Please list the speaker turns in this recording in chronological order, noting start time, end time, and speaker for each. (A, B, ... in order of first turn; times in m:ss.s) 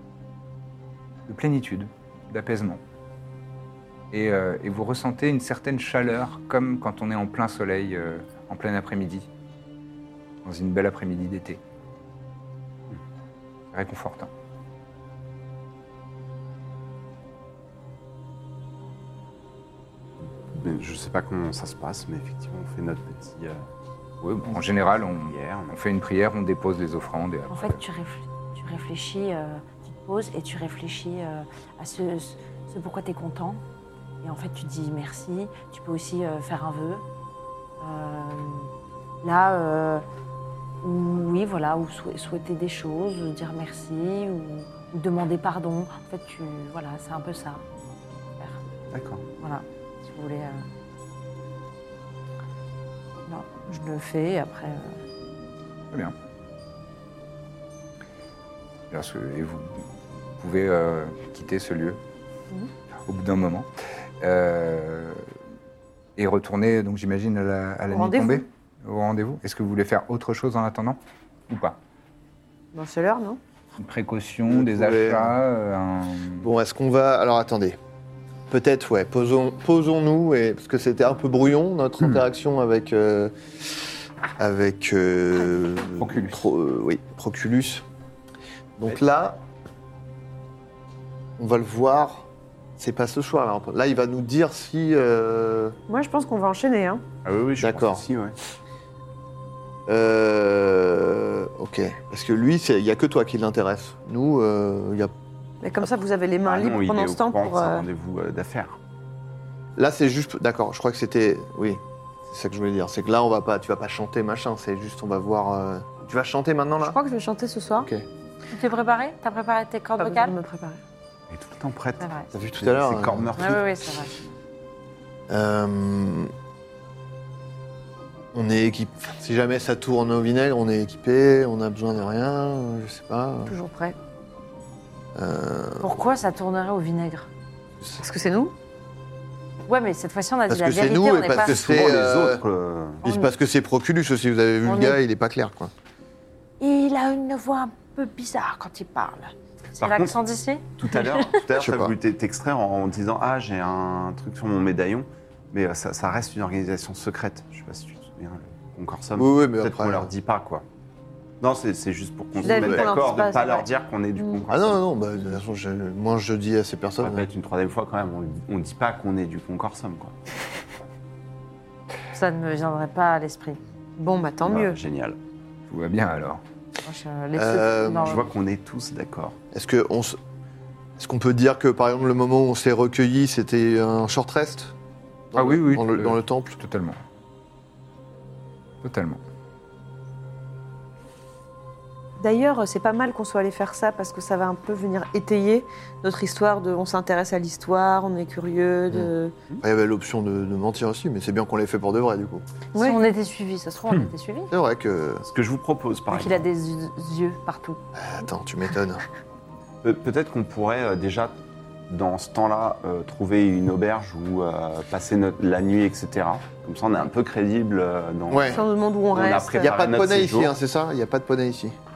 0:01.3-0:02.8 A
0:04.1-0:09.3 A
0:10.4-0:11.6 A
0:13.7-0:14.3 A
0:20.5-0:23.7 B
0:24.2-0:27.8 A
0:24.9-0:25.7 B
0:27.5-0:33.6 C
0:34.2-0:37.0 C
0:37.8-0:38.7 C
0:39.2-0:40.0 C
0:40.8-0:47.6 C
0:48.9-0:49.2 B
0:49.4-0:50.6 C
0:53.2-0:55.0 C
0:58.9-0:59.8 A
1:00.4-1:02.0 A
1:03.1-1:03.7 A
1:04.2-1:05.2 A
1:06.2-1:11.0 A
1:07.9-1:08.4 D
1:11.5-1:11.8 A
1:12.7-1:13.4 D
1:13.8-1:16.5 A
1:14.5-1:15.3 E
1:16.4-1:17.8 E
1:18.5-1:23.3 E
1:24.4-1:27.8 E
1:26.0-1:26.4 A
1:28.8-1:29.4 E
1:31.4-1:32.3 E
1:32.8-1:35.8 E
1:35.9-1:37.0 D
1:37.2-1:38.4 B
1:37.6-1:38.0 E
1:39.9-1:45.1 E
1:45.6-1:47.8 D
1:46.4-1:48.8 B
1:49.8-1:57.0 E
1:56.8-1:57.9 D
1:57.8-1:58.0 E
1:58.5-2:00.3 C
2:00.0-2:00.8 D
2:01.3-2:02.0 B
2:02.0-2:02.3 C
2:02.3-2:03.4 E
2:02.6-2:03.7 B
2:03.4-2:04.2 C
2:05.3-2:06.3 E
2:08.3-2:13.5 E
2:13.5-2:14.0 D
2:15.1-2:15.9 E
2:15.8-2:17.3 C
2:18.0-2:18.5 D
2:19.7-2:21.6 C
2:20.5-2:22.4 E
2:21.4-2:23.0 B
2:23.0-2:25.7 E
2:23.0-2:23.3 C
2:24.6-2:25.0 C
2:26.6-2:31.4 C
2:29.8-2:30.2 B
2:30.8-2:40.6 B
2:31.6-2:31.9 E
2:39.2-2:40.1 E
2:41.4-2:44.8 B
2:42.4-2:43.7 D
2:42.4-2:43.0 E
2:44.2-2:44.5 D
2:44.5-2:47.3 E
2:47.0-2:50.1 B
2:52.1-2:53.6 C
2:54.0-2:54.8 D
2:54.4-2:55.2 B
2:55.7-2:56.4 A
2:56.8-2:58.3 C
2:57.4-2:58.2 E
2:58.0-2:59.4 B
2:59.5-3:00.2 E
3:01.0-3:04.7 E
3:05.3-3:06.6 E
3:05.4-3:07.0 A
3:08.8-3:09.2 A
3:12.2-3:19.3 D
3:18.9-3:22.4 E
3:22.7-3:23.0 D
3:22.8-3:24.5 C
3:24.5-3:25.2 E
3:25.2-3:26.4 B
3:26.1-3:27.8 C
3:27.9-3:29.0 E
3:29.8-3:31.4 B
3:31.9-3:40.5 B
3:38.3-3:38.6 E
3:38.4-3:39.8 D
3:39.6-3:41.8 E